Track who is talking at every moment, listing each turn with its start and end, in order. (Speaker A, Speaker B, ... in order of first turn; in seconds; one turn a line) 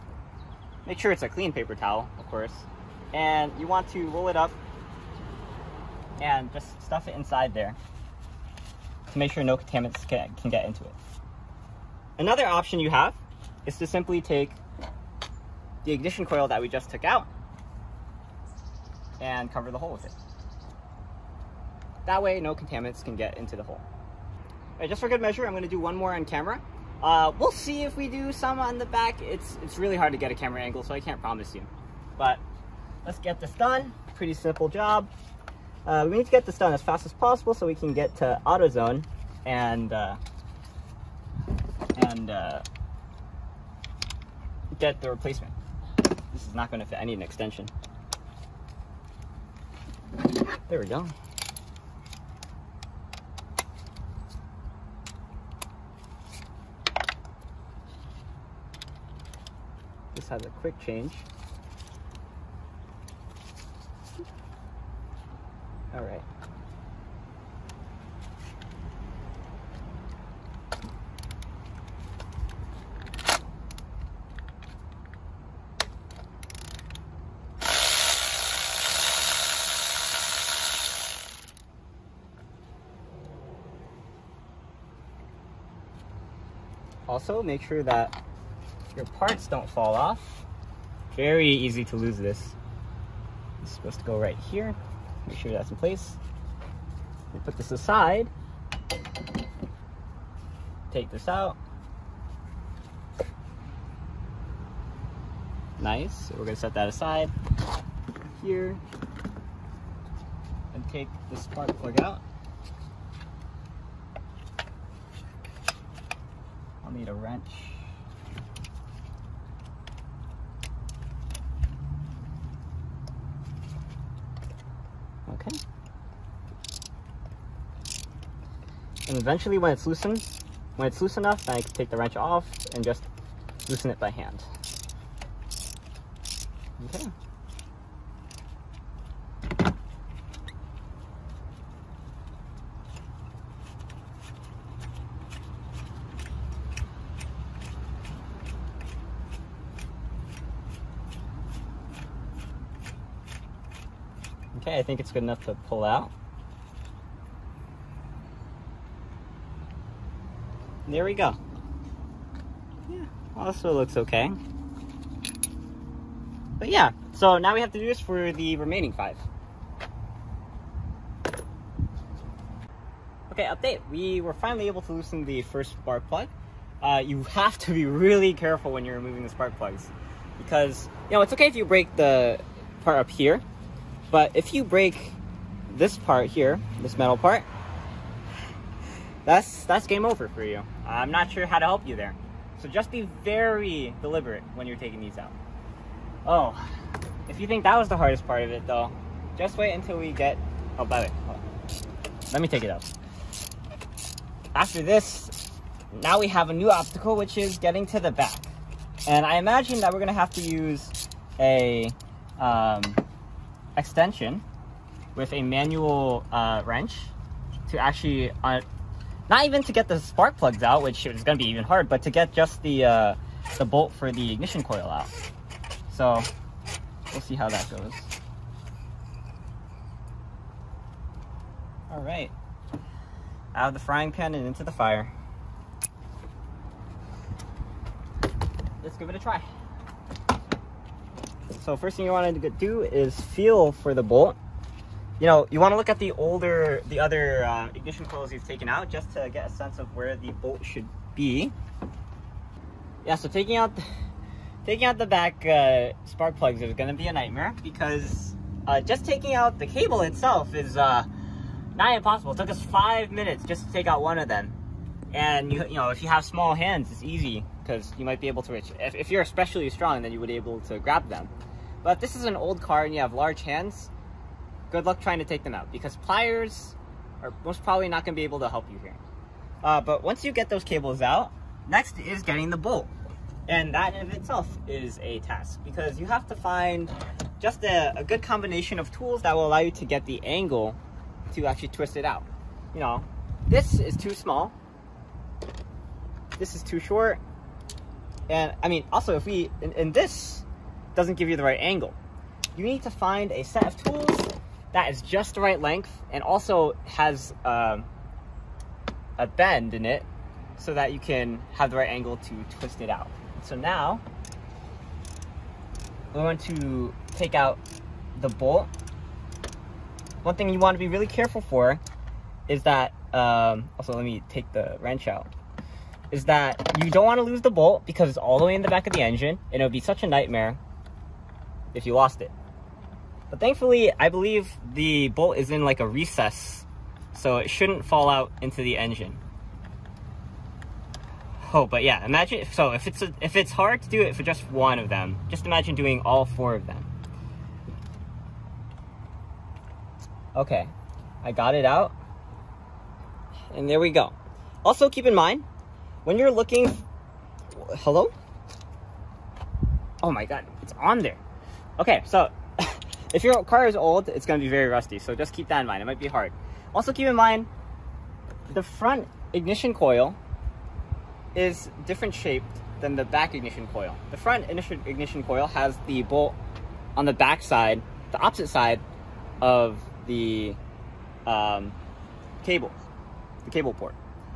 Speaker A: 0.8-4.6
Speaker A: 6.2-7.8
Speaker A: 9.1-11.0
Speaker A: 12.2-14.6
Speaker A: 15.8-17.3
Speaker A: 19.2-20.2
Speaker A: 22.1-23.9
Speaker A: 24.8-32.4
Speaker A: 33.0-35.1
Speaker A: 35.9-40.2
Speaker A: 42.0-42.6
Speaker A: 44.8-45.5
Speaker A: 46.3-47.7
Speaker A: 50.7-51.1
Speaker A: 60.1-61.2
Speaker A: 65.9-66.3
Speaker A: 87.1-88.2
Speaker A: 88.9-90.5
Speaker A: 91.1-92.6
Speaker A: 93.6-96.2
Speaker A: 97.3-98.3
Speaker A: 100.9-101.6
Speaker A: 105.8-107.3
Speaker A: 108.3-108.8
Speaker A: 110.7-112.2
Speaker A: 116.8-117.9
Speaker A: 125.3-125.6
Speaker A: 129.1-133.1
Speaker A: 133.7-134.5
Speaker A: 136.8-137.1
Speaker A: 154.5-156.1
Speaker A: 160.9-161.4
Speaker A: 162.9-164.4
Speaker A: 166.6-169.2
Speaker A: 173.3-183.4
Speaker A: 184.1-187.5
Speaker A: 189.2-195.3
Speaker A: 196.2-196.7
Speaker A: 197.3-201.4
Speaker A: 202.3-202.9
Speaker A: 204.6-205.4
Speaker A: 205.9-208.5
Speaker A: 209.1-213.0
Speaker A: 213.8-214.4
Speaker A: 215.2-217.1
Speaker A: 217.7-218.7
Speaker A: 219.3-225.1
Speaker A: 225.9-226.3
Speaker A: 227.1-228.1
Speaker A: 231.9-232.3
Speaker A: 233.5-235.1
Speaker A: 238.8-239.5
Speaker A: 241.5-244.4
Speaker A: 245.2-251.6
Speaker A: 253.1-253.8
Speaker A: 254.7-261.1
Speaker A: 261.8-264.6
Speaker A: 265.1-271.3
Speaker A: 271.8-273.9
Speaker A: 274.7-279.0
Speaker A: 279.6-282.9
Speaker A: 283.5-290.8
Speaker A: 291.3-294.6
Speaker A: 296.4-297.2
Speaker A: 298.3-302.0
Speaker A: 302.6-307.9
Speaker A: 309.2-314.0
Speaker A: 316.1-317.6
Speaker A: 318.2-318.7
Speaker A: 320.2-321.8
Speaker A: 322.5-325.3
Speaker A: 326.1-330.6
Speaker A: 331.7-332.3
Speaker A: 333.3-339.2
Speaker A: 341.4-346.9
Speaker A: 350.4-350.7
Speaker A: 351.2-352.0
Speaker A: 353.5-355.5
Speaker A: 356.1-356.9
Speaker A: 357.5-358.1
Speaker A: 360.0-361.2
Speaker A: 361.8-367.5
Speaker A: 368.5-370.2
Speaker A: 371.4-376.4
Speaker A: 377.0-378.8
Speaker A: 379.4-380.6
Speaker A: 381.3-381.8
Speaker A: 382.4-382.8
Speaker A: 383.4-384.0